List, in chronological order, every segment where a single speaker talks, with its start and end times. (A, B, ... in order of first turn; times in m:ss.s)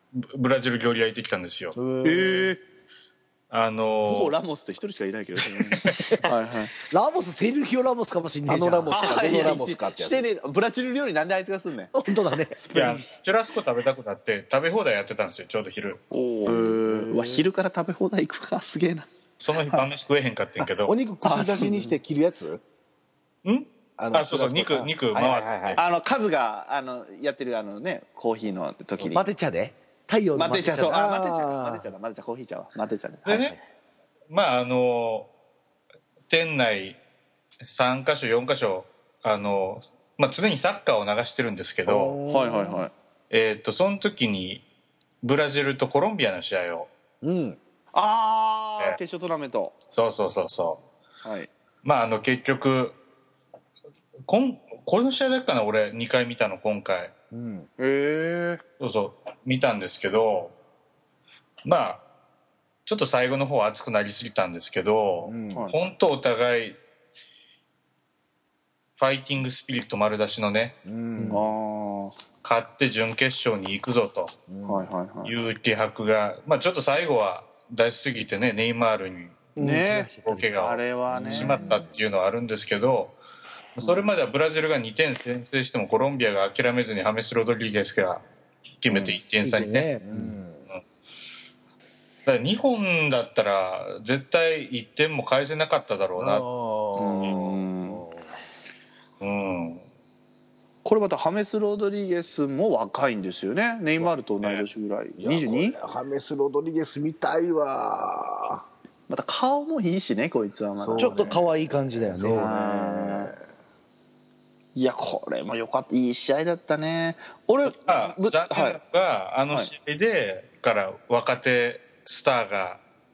0:00.1-0:01.8 A
0:01.7-0:02.6 B
0:02.0-0:02.6 C
0:03.5-0:04.3 A
0:04.0-0:06.7 C
0:05.6-0:06.0 A
0:06.9-0:09.2 D
0:08.5-0:10.2 B
0:08.9-0:11.9 C
0:11.9-0:12.6 D
0:12.5-0:13.1 C
0:12.7-0:16.0 A
0:16.1-0:19.1 C
0:16.4-0:17.4 B
0:19.4-0:21.0 A
0:20.8-0:22.6 B
0:21.2-0:21.9 C
0:23.4-0:25.8 A
0:24.0-0:25.8 B
0:25.8-0:29.2 C
0:29.1-0:31.0 D
0:30.3-0:33.6 C
0:30.8-0:31.8 B
0:33.2-0:33.6 A
0:34.3-0:35.3 A
0:36.3-0:37.0 A
0:37.6-0:42.2 A
0:41.8-0:42.9 B
0:42.3-0:42.9 C
0:43.3-0:44.6 A
0:45.2-0:46.9 A
0:47.2-0:47.6 B
0:47.9-0:49.8 C
0:49.9-0:50.8 A
0:51.2-0:51.5 C
0:51.8-0:53.0 A
0:54.3-0:57.1 A
0:57.3-0:57.7 B
0:57.8-0:58.6 C
0:58.8-1:00.5 A
1:01.6-1:02.0 A
1:02.8-1:06.8 A
1:05.2-1:05.7 B
1:09.0-1:10.7 A
1:10.8-1:11.5 B
1:11.3-1:12.2 C
1:12.4-1:14.3 A
1:14.5-1:14.9 B
1:14.6-1:15.4 C
1:15.2-1:19.6 A
1:19.6-1:20.5 D
1:19.6-1:21.8 C
1:20.2-1:23.2 A
1:21.1-1:22.0 B
1:23.8-1:28.2 A
1:28.8-1:29.9 A
1:28.9-1:29.2 B
1:29.4-1:30.4 D
1:30.0-1:30.7 B
1:32.2-1:37.4 A
1:36.2-1:38.2 B
1:36.9-1:38.0 C
1:39.2-1:39.8 A
1:40.8-1:45.8 C
1:44.0-1:44.6 A
1:45.2-1:48.6 B
1:49.1-1:51.3 C
1:50.8-1:53.4 B
1:51.0-1:52.5 D
1:52.3-1:53.3 C
1:54.7-1:58.8 C
1:57.8-2:02.8 A